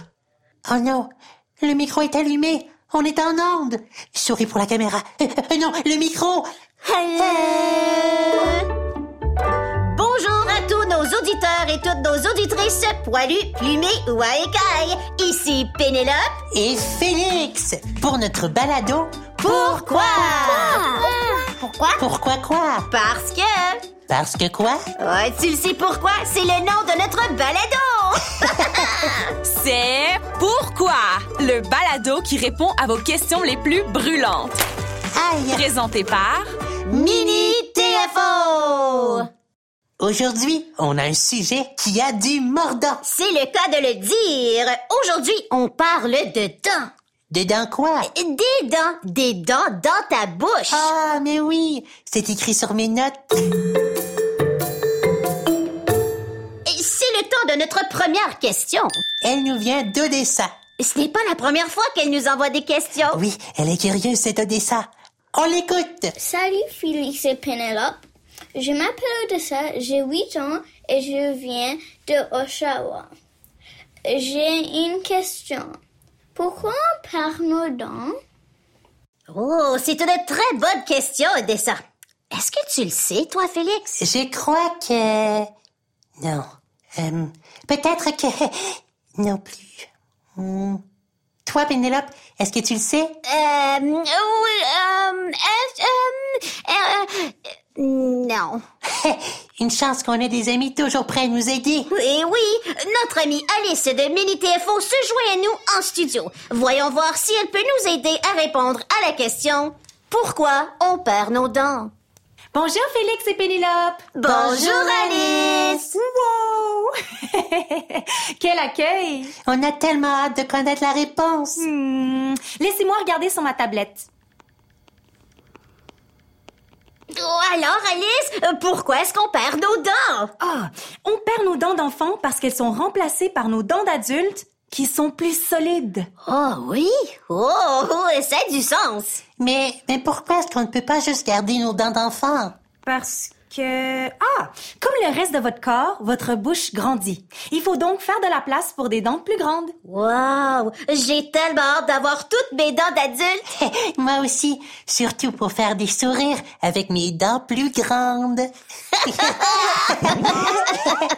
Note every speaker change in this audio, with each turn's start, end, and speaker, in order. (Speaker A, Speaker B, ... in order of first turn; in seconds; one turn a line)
Speaker A: 0.7-6.5
Speaker B: 6.8-8.6
Speaker B: 9.8-16.3
Speaker A: 16.5-20.9
Speaker B: 19.4-21.1
Speaker A: 21.9-22.9
Speaker B: 22.9-23.8
Speaker A: 24.1-24.8
Speaker B: 25.0-29.3
Speaker A: 28.5-28.8
Speaker C: 29.4-34.6
Speaker A: 35.1-35.7
Speaker C: 35.5-36.5
Speaker B: 36.9-39.3
Speaker A: 36.9-39.2
Speaker A: 40.0-43.0
Speaker B: 43.0-46.9
Speaker A: 47.3-48.1
Speaker B: 48.0-50.9
Speaker A: 50.7-53.2
Speaker B: 56.6-59.0
Speaker A: 59.2-60.5
Speaker B: 60.8-63.2
Speaker A: 63.1-66.1
Speaker D: 66.2-68.0
Speaker D: 68.5-73.1
Speaker D: 74.1-75.7
Speaker D: 76.3-78.1
Speaker B: 79.3-81.8
Speaker B: 82.3-84.0
Speaker A: 84.0-85.5
Speaker A: 86.2-90.8
Speaker A: 91.5-93.1
Speaker B: 93.2-98.6
Speaker A: 98.9-101.9
Speaker B: 101.9-111.9
Speaker E: 112.5-119.3
Speaker B: 114.2-115.9
Speaker A: 114.2-114.7
Speaker A: 119.5-121.7
Speaker E: 121.6-124.1
Speaker B: 127.1-130.3
Speaker E: 130.4-136.1
Speaker B: 136.3-139.2
Speaker A: 139.4-142.5
Speaker E: 142.8-149.7
Speaker B: 149.8-153.4
Speaker A: 153.5-158.5
Speaker A: 159.1-160.6
Speaker B: 159.1-161.0